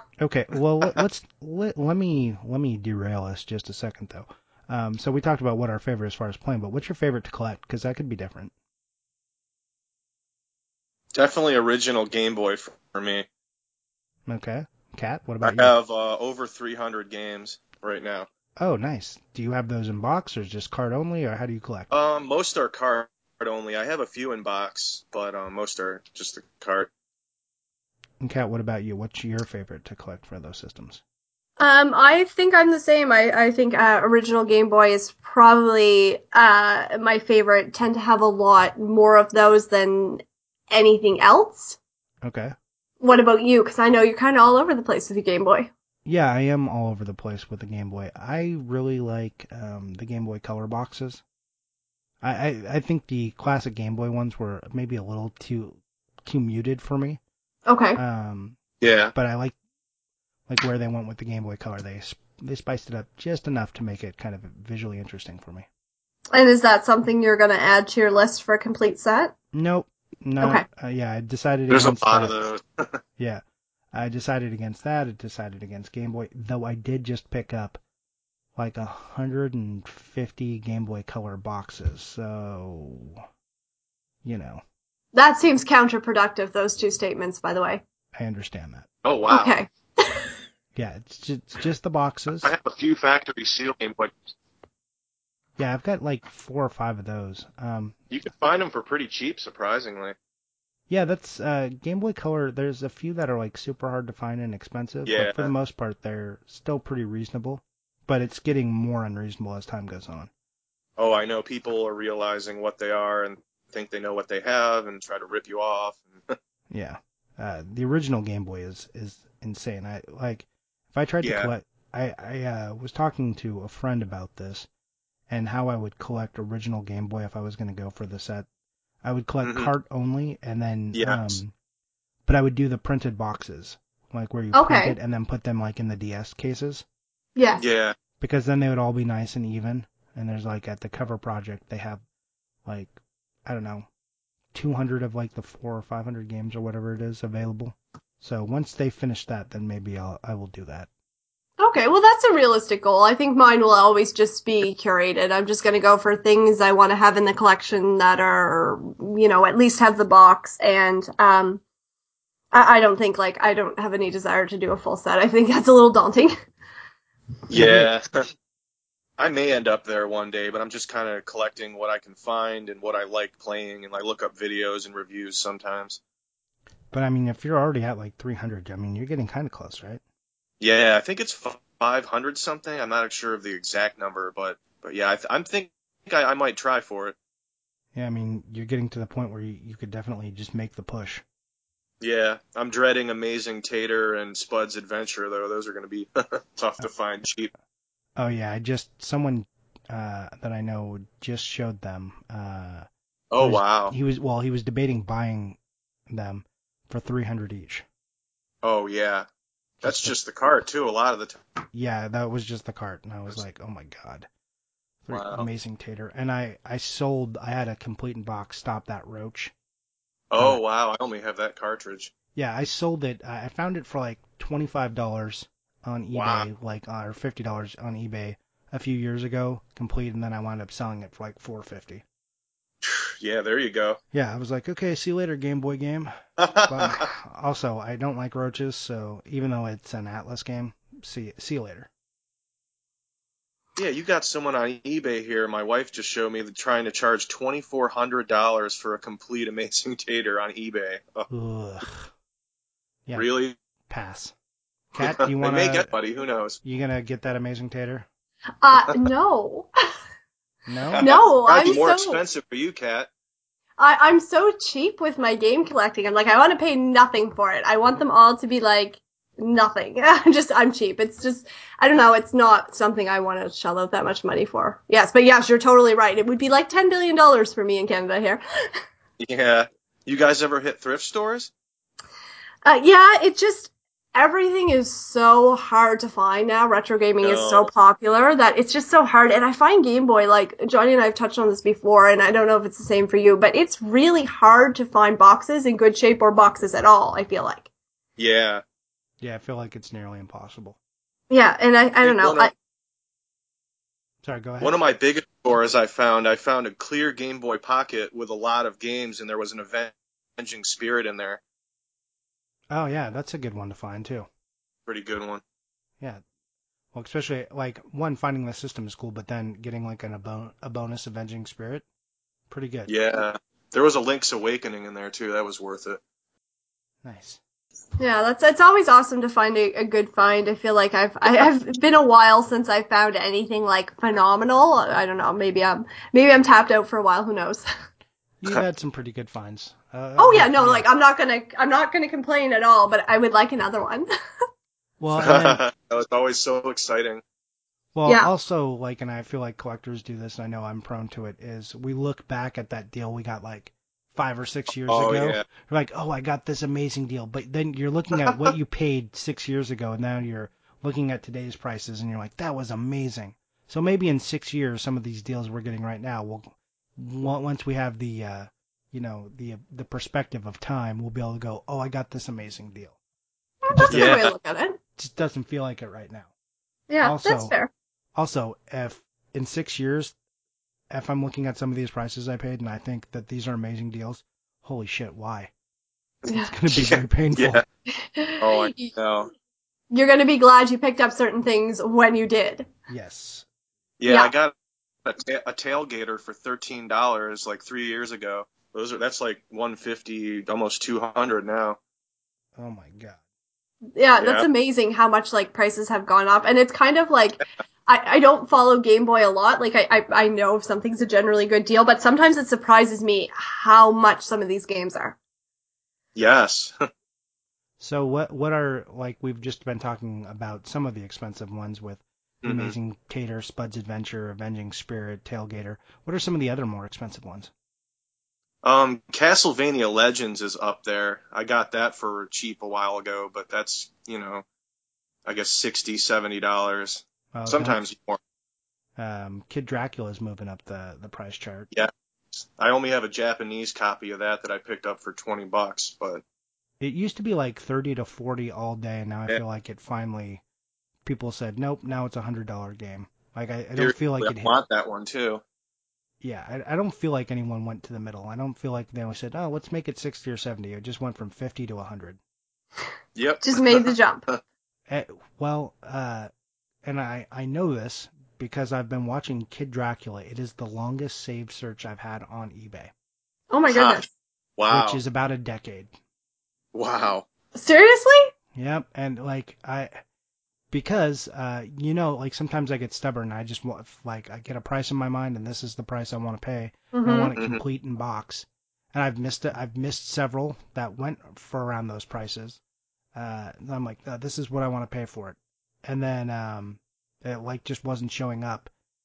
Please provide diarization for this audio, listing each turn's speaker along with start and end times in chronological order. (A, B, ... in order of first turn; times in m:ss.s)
0:00.2-0:08.5 A
0:11.2-0:13.3 B
0:14.3-0:15.7 A
0:15.4-0:18.3 B
0:18.6-0:21.9 A
0:21.9-0:26.9 B
0:28.2-0:31.0 A
0:31.6-0:41.8 C
0:42.2-0:42.5 A
0:43.0-0:45.7 C
0:46.0-0:51.2 A
0:52.2-0:57.2 A
0:57.7-0:58.0 C
0:58.0-0:58.6 A
0:58.8-0:59.1 B
0:59.1-0:59.6 A
1:00.5-1:05.7 A
1:06.3-1:09.3 C
1:09.5-1:12.4 A
1:11.7-1:13.0 B
1:13.2-1:13.4 A
1:13.9-1:17.8 A
1:18.6-1:23.2 A
1:24.2-1:24.6 A
1:25.1-1:27.8 C
1:28.2-1:28.9 A
1:29.0-1:29.6 B
1:29.3-1:30.3 C
1:30.8-1:32.5 A
1:32.4-1:34.3 B
1:35.6-1:38.0 A
1:38.1-1:40.2 B
1:40.9-1:50.3 A
1:45.1-1:45.5 B
1:51.0-1:56.4 B
1:56.7-2:04.7 A
2:01.2-2:01.5 B
2:05.3-2:08.5 A
2:09.0-2:11.5 A
2:09.4-2:09.7 B
2:10.9-2:11.4 B
2:12.3-2:16.8 A
2:14.5-2:15.0 C
2:17.4-2:17.6 C
2:17.6-2:18.0 B
2:18.2-2:22.0 A
2:22.6-2:23.9 A
2:24.5-2:30.9 A
2:31.6-2:41.6 C
2:42.5-2:46.3 C
2:47.5-2:48.1 B
2:47.5-2:47.9 A
2:49.2-2:56.0 B
2:56.9-3:00.0 A
3:00.6-3:07.2 B
3:07.9-3:11.2 A
3:12.0-3:17.5 B
3:18.2-3:22.9 A
3:23.3-3:23.9 B
3:23.4-3:25.6 A
3:26.1-3:27.8 A
3:28.6-3:29.3 B
3:29.8-3:30.2 A
3:29.8-3:31.4 B
3:31.7-3:34.3 A
3:35.0-3:39.5 A
3:35.1-3:35.5 B
3:40.3-3:42.1 B
3:42.4-3:52.0 A
3:46.1-3:46.5 B
3:52.8-3:54.0 B
3:54.1-3:56.1 A
3:56.4-3:57.1 B
3:56.7-4:01.9 A
4:03.8-4:11.3 B
4:11.3-4:12.1 A
4:13.2-4:13.6 B
4:13.9-4:14.3 A
4:14.9-4:15.9 A
4:15.0-4:16.6 B
4:16.6-4:18.1 A
4:18.6-4:19.7 C
4:20.7-4:21.1 A
4:20.9-4:23.1 B
4:21.0-4:22.2 C
4:23.8-4:38.4 C
4:39.2-4:41.5 B
4:42.6-4:57.7 C
4:47.2-4:47.7 B
4:58.2-4:58.6 B
4:59.2-5:00.8 A
5:01.3-5:02.5 C
5:02.0-5:02.5 B
5:04.2-5:04.8 A
5:04.6-5:11.4 B
5:12.7-5:14.3 A
5:14.9-5:15.4 B
5:16.9-5:21.8 A
5:22.5-5:23.0 A
5:22.9-5:26.0 B
5:27.0-5:27.4 A
5:28.0-5:37.6 C
5:38.4-5:40.9 A
5:40.2-5:44.1 C
5:45.0-5:45.6 A
5:45.2-5:47.2 B
5:47.9-6:13.0 A
5:54.9-5:55.4 B
5:58.2-5:58.5 B
6:13.6-6:14.8 C
6:13.7-6:14.2 A
6:13.9-6:14.3 B
6:15.0-6:16.3 A
6:16.9-6:17.7 C
6:17.0-6:17.6 A
6:18.2-6:20.2 A
6:20.9-6:25.5 A
6:26.3-6:27.6 A
6:26.7-6:27.6 B
6:27.9-6:28.9 C
6:28.4-6:29.3 B
6:29.9-6:32.7 C
6:32.9-6:33.5 A
6:34.0-6:34.5 B
6:34.1-6:34.3 C
6:35.0-6:41.8 B
6:42.6-6:43.2 A
6:44.0-6:55.2 C
6:44.2-6:44.5 B
6:56.2-6:56.7 B
6:57.8-7:07.5 A
7:02.4-7:02.8 B
7:08.6-7:14.4 B
7:15.2-7:18.2 B
7:17.3-7:17.8 A
7:19.0-7:21.7 A
7:21.7-7:26.2 B
7:26.8-7:30.4 A
7:31.0-7:34.6 A
7:33.8-7:35.4 B
7:36.2-7:42.2 A
7:43.2-7:44.4 B
7:43.4-7:44.2 C
7:44.9-7:46.3 A
7:46.8-7:52.9 A
7:53.5-7:54.1 C
7:53.7-7:54.0 B
7:54.6-7:55.0 B
7:54.7-7:55.9 A
7:56.7-7:57.3 B
7:57.5-7:58.3 C
7:58.6-8:00.0 A
8:00.7-8:12.6 A
8:06.9-8:07.3 C
8:13.2-8:18.7 A